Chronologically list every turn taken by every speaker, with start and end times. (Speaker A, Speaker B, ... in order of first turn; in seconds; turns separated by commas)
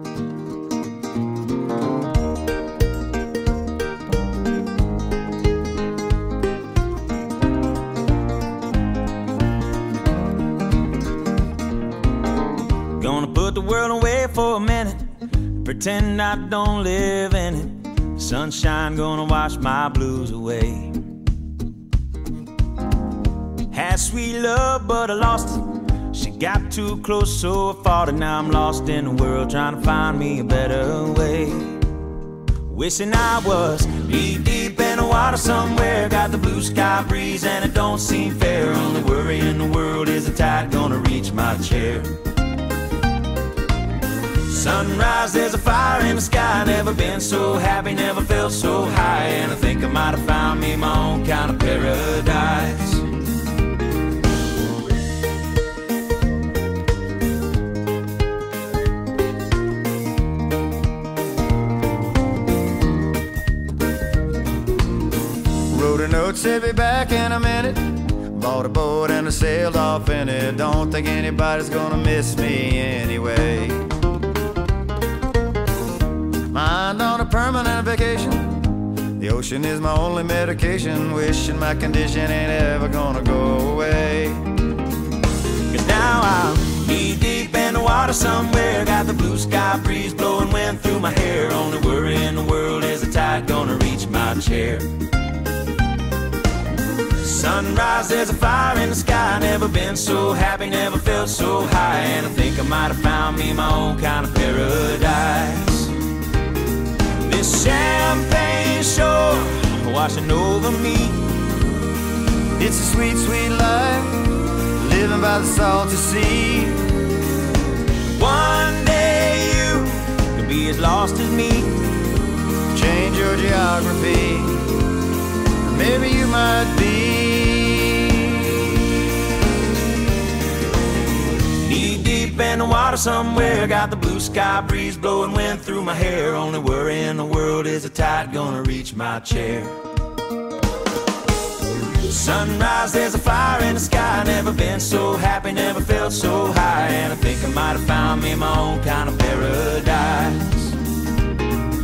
Speaker A: 12.9-21.0, Speaker A: 23.7-31.9, Speaker A: 32.6-42.2, Speaker A: 44.4-53.1, Speaker B: 65.7-73.9, Speaker B: 76.5-84.5, Speaker A: 85.7-94.9, Speaker A: 97.1-105.9, Speaker A: 107.2-111.3, Speaker B: 112.5-116.8, Speaker A: 118.1-121.8, Speaker B: 122.7-124.8, Speaker B: 125.6-128.8, Speaker A: 131.6-139.8, Speaker A: 142.0-150.8